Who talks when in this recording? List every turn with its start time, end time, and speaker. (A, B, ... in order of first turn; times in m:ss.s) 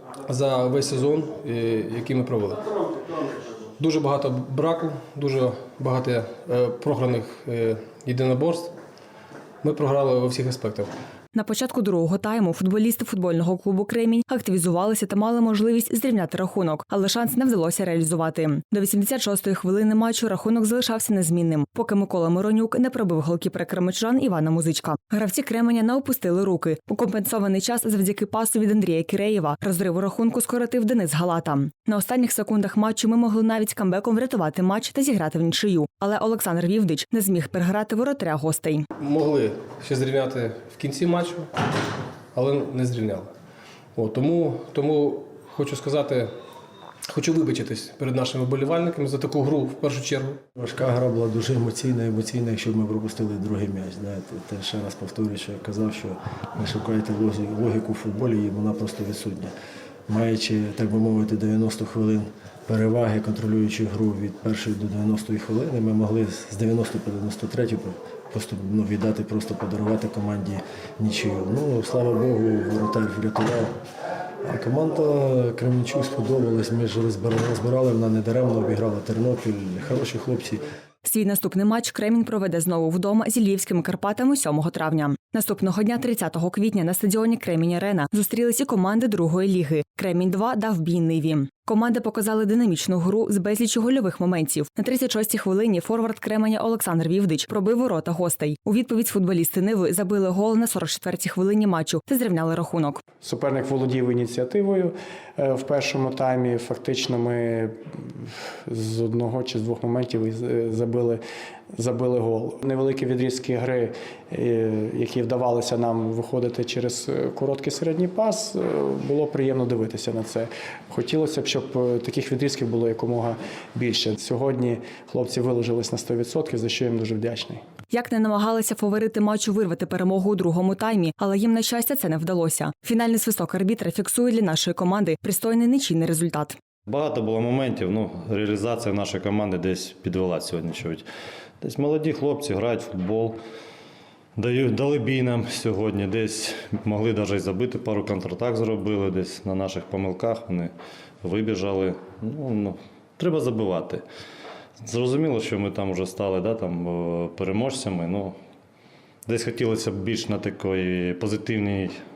0:00.3-0:02.6 A
0:03.8-0:08.7 A
0:09.6-0:10.9 A
0:11.3-0:38.9 B
0:39.0-0:41.5 A
0:42.3-0:43.3 A
0:44.0-0:46.3 A
0:47.1-0:50.4 A
0:50.6-0:59.5 C
1:00.1-1:13.7 C
1:14.4-1:20.6 C
1:21.0-1:43.0 B
1:43.2-1:51.2 D
1:51.8-2:07.6 D
2:07.9-2:16.6 B
2:16.9-2:21.0 E
2:21.6-2:23.4 E
2:24.4-2:34.0 E
2:34.8-2:38.3 E
2:39.3-2:42.0 E